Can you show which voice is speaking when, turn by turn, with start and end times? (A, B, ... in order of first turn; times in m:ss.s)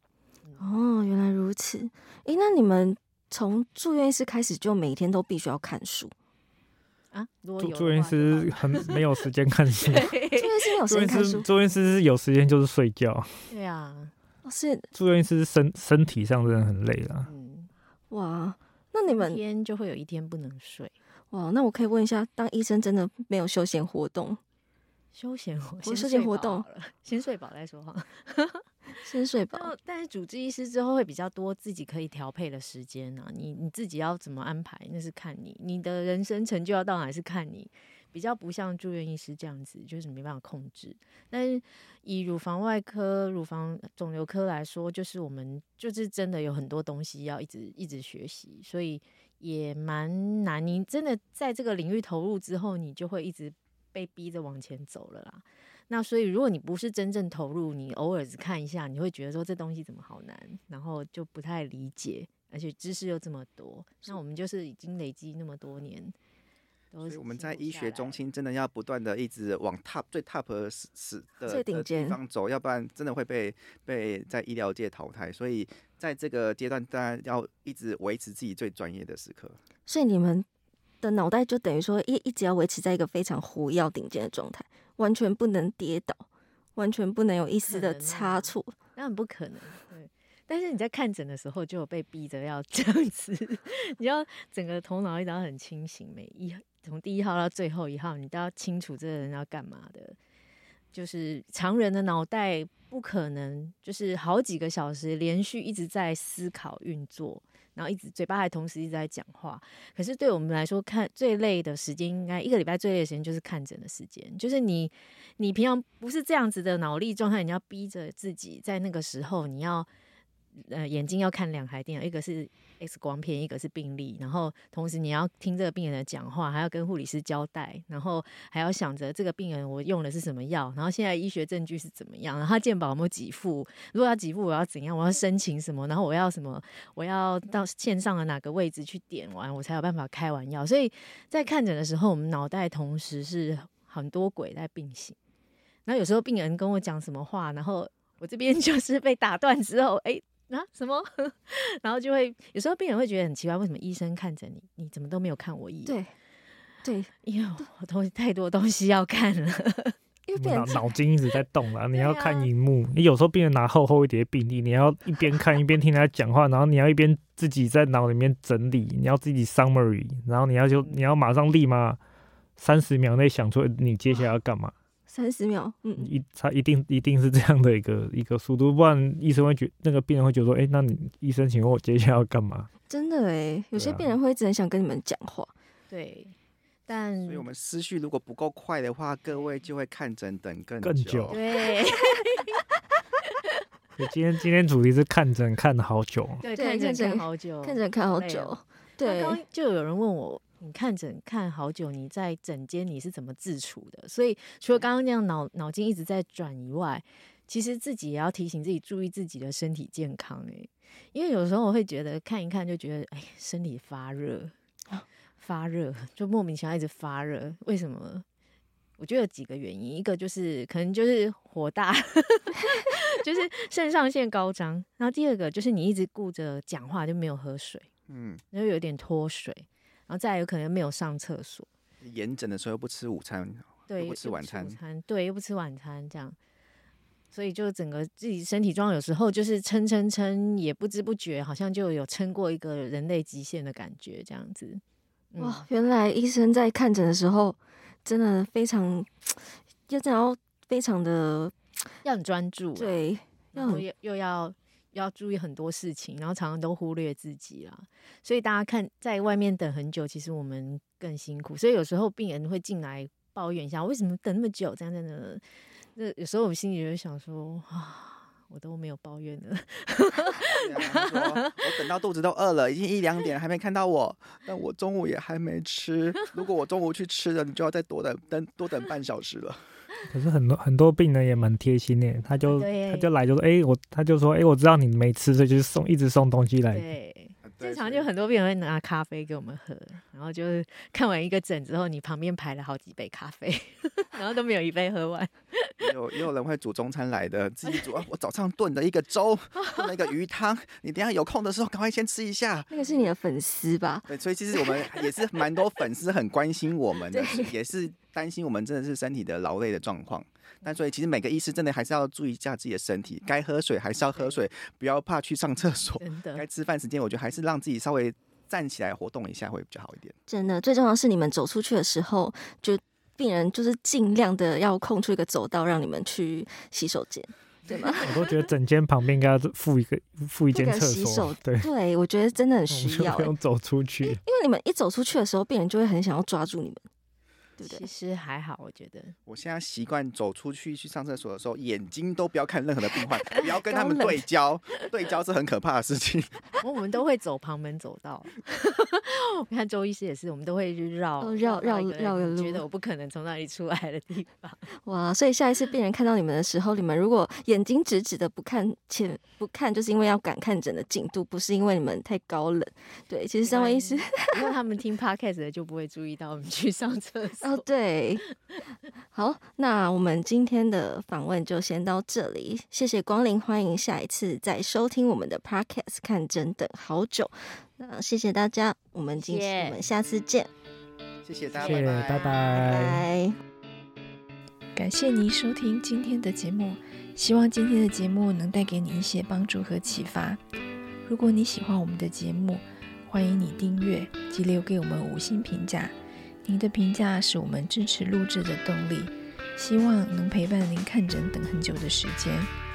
0:00.6-0:06.1 A
0:07.1-0:09.0 B
0:07.6-0:10.2 C
0:09.8-0:10.4 B
0:10.4-0:11.5 A
0:10.9-0:13.3 C
0:13.5-0:14.1 B
0:14.4-0:14.9 A
0:14.9-0:17.3 C
0:17.2-0:17.7 B
0:18.1-0:19.4 A
0:19.0-0:20.9 B
0:21.3-0:24.4 A
0:25.1-0:28.6 B
0:25.8-0:26.6 A
0:29.0-0:29.7 A
0:29.5-1:06.1 B
1:06.9-1:08.2 B
1:07.0-1:19.6 D
1:11.4-1:12.2 A
1:19.9-1:20.5 A
1:21.0-1:26.2 A
1:26.8-1:28.7 A
1:27.6-1:40.2 B
1:40.9-1:59.9 B
2:00.5-2:25.2 B
2:25.8-2:36.0 B
2:35.8-2:36.1 A
2:36.8-2:37.1 A
2:37.2-2:40.0 B
2:40.3-2:41.0 A
2:40.4-2:52.0 C
2:41.9-2:42.5 B
2:52.6-2:54.7 C
2:55.1-2:56.1 A
2:56.0-3:02.7 C
3:02.9-3:05.5 A
3:03.7-3:04.1 C
3:05.9-3:06.3 B
3:06.9-3:07.4 B
3:07.2-3:11.4 D
3:09.3-3:09.6 B
3:10.8-3:11.3 C
3:11.3-3:12.6 B
3:14.0-3:16.4 C
3:16.4-3:34.5 B
3:16.5-3:19.4 A
3:35.4-3:38.2 B
3:39.0-3:47.9 B
3:48.1-3:48.4 D
3:48.5-3:51.7 B
3:52.0-3:54.8 D
3:53.9-3:56.4 B
3:57.3-4:04.8 B
4:05.3-4:05.6 B
4:05.4-4:11.5 A
4:12.0-4:13.0 B
4:12.8-4:13.8 A
4:13.5-4:25.4 B
4:25.9-4:31.6 B
4:30.5-4:39.6 D
4:40.1-4:46.8 C
4:42.4-4:43.1 B
4:46.7-4:55.9 B
4:47.4-4:48.1 D
4:55.8-5:02.7 D
5:02.7-5:05.2 A
5:04.1-5:20.2 D
5:07.1-5:07.5 A
5:14.1-5:14.4 B
5:16.0-5:16.4 B
5:20.3-5:28.2 A
5:28.0-5:31.7 C
5:30.5-5:33.3 A
5:32.7-5:34.2 C
5:34.0-5:36.8 A
5:37.6-5:37.9 A
5:37.6-5:39.2 B
5:39.3-5:46.5 D
5:43.2-5:44.2 A
5:46.6-5:54.6 B
5:51.2-5:52.6 A
5:54.8-6:04.6 A
6:03.4-6:07.7 B
6:07.4-6:08.2 A
6:09.1-6:20.5 A
6:19.2-6:19.8 B
6:21.2-6:22.3 D
6:21.6-6:23.0 C
6:22.5-6:23.4 A
6:24.7-6:30.4 E
6:31.0-6:42.5 E